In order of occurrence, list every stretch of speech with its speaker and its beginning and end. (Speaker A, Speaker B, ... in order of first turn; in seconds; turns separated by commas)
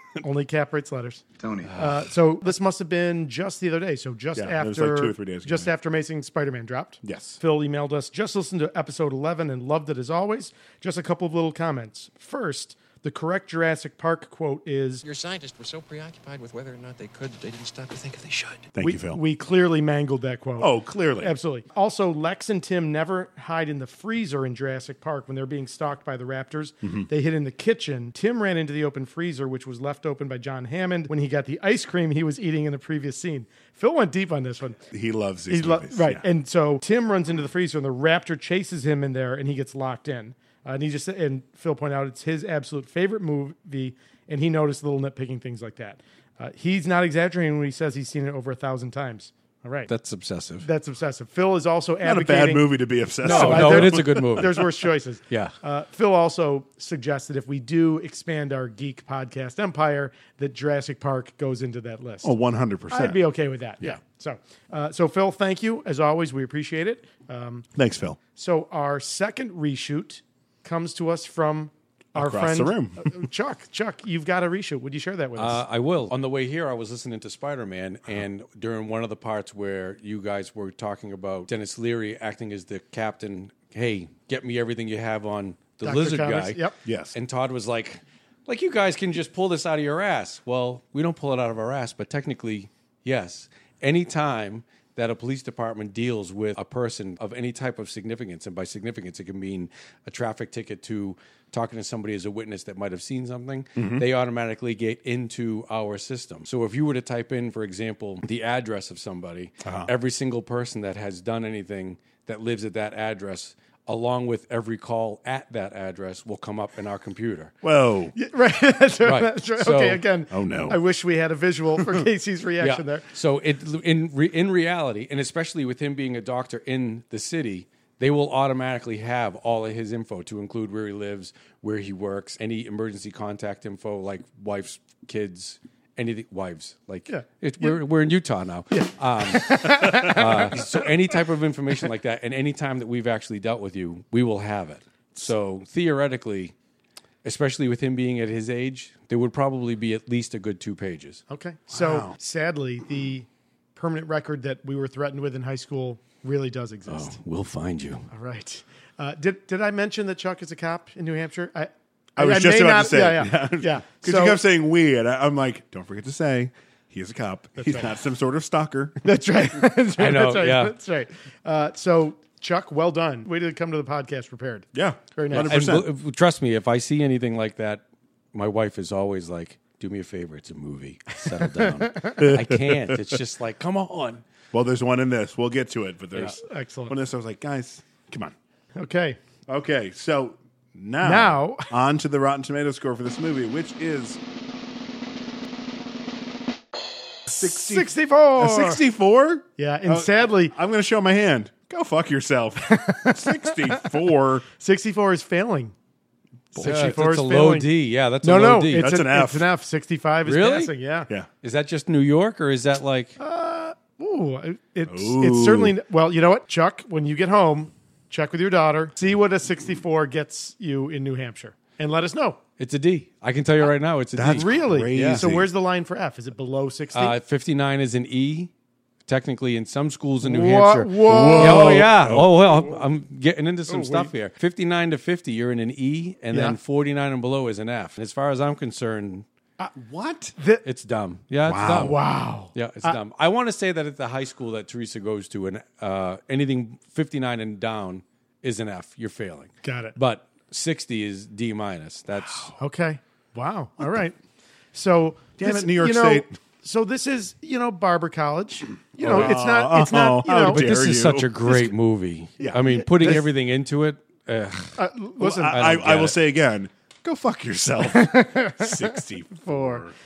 Speaker A: 0.2-15.0, Speaker B: 4.4-5.7, Speaker B: 7.0-7.4, Speaker C: 15.0-18.7, Speaker B: 18.8-19.2, Speaker A: 18.8-34.8, Speaker B: 20.6-21.3, Speaker B: 26.8-27.1, Speaker B: 34.9-36.2, Speaker A: 35.5-49.9, Speaker D: 49.9-50.7, Speaker A: 50.6-62.4, Speaker B: 52.0-54.6, Speaker D: 53.2-54.7, Speaker B: 62.2-63.2, Speaker A: 62.9-67.7, Speaker B: 67.8-68.2, Speaker A: 68.4-75.6, Speaker B: 72.2-73.2, Speaker D: 75.4-117.5, Speaker A: 85.8-86.8, Speaker B: 86.8-87.2, Speaker B: 103.8-104.0, Speaker B: 109.6-109.9, Speaker B: 117.6-118.2, Speaker A: 118.2-123.1, Speaker D: 119.0-120.0, Speaker B: 120.3-120.8, Speaker D: 122.6-146.5, Speaker A: 137.1-137.8, Speaker A: 138.7-140.7, Speaker D: 147.2-151.2, Speaker A: 151.3-157.2, Speaker B: 151.7-152.2, Speaker D: 156.9-158.1, Speaker A: 158.1-164.4, Speaker B: 162.2-169.0, Speaker A: 167.6-167.9, Speaker A: 169.0-175.6, Speaker D: 170.0-170.8, Speaker B: 174.7-175.9, Speaker D: 175.4-184.2, Speaker A: 181.6-182.1, Speaker B: 182.2-183.0, Speaker B: 184.5-188.3, Speaker A: 186.2-187.0, Speaker A: 188.8-189.2, Speaker B: 189.5-194.2, Speaker A: 191.0-191.7, Speaker A: 197.3-198.8, Speaker B: 197.3-204.5, Speaker A: 199.6-200.6, Speaker A: 202.6-204.0, Speaker A: 204.5-205.7, Speaker A: 206.6-207.7, Speaker D: 206.6-208.9, Speaker A: 208.2-211.1, Speaker B: 208.8-209.5, Speaker D: 210.2-210.7, Speaker D: 211.4-213.2, Speaker A: 213.2-222.4, Speaker B: 214.9-215.8, Speaker D: 222.6-225.2, Speaker B: 224.2-225.5, Speaker A: 224.2-227.2, Speaker D: 226.9-228.5, Speaker D: 229.1-239.3, Speaker A: 230.2-232.1, Speaker B: 231.0-232.6, Speaker A: 233.7-234.1, Speaker A: 236.3-236.6, Speaker B: 239.8-240.3, Speaker A: 240.4-240.6, Speaker D: 240.7-242.0, Speaker B: 241.5-242.0, Speaker A: 241.6-243.0, Speaker D: 242.5-252.5, Speaker A: 249.6-250.0, Speaker A: 252.6-254.2, Speaker A: 254.7-260.8, Speaker B: 255.4-256.3, Speaker B: 259.0-261.7, Speaker D: 259.1-259.3, Speaker D: 260.4-264.8, Speaker B: 262.4-263.2, Speaker A: 262.5-263.2, Speaker A: 264.8-265.8, Speaker B: 265.2-269.9, Speaker D: 265.5-266.2, Speaker A: 267.8-269.9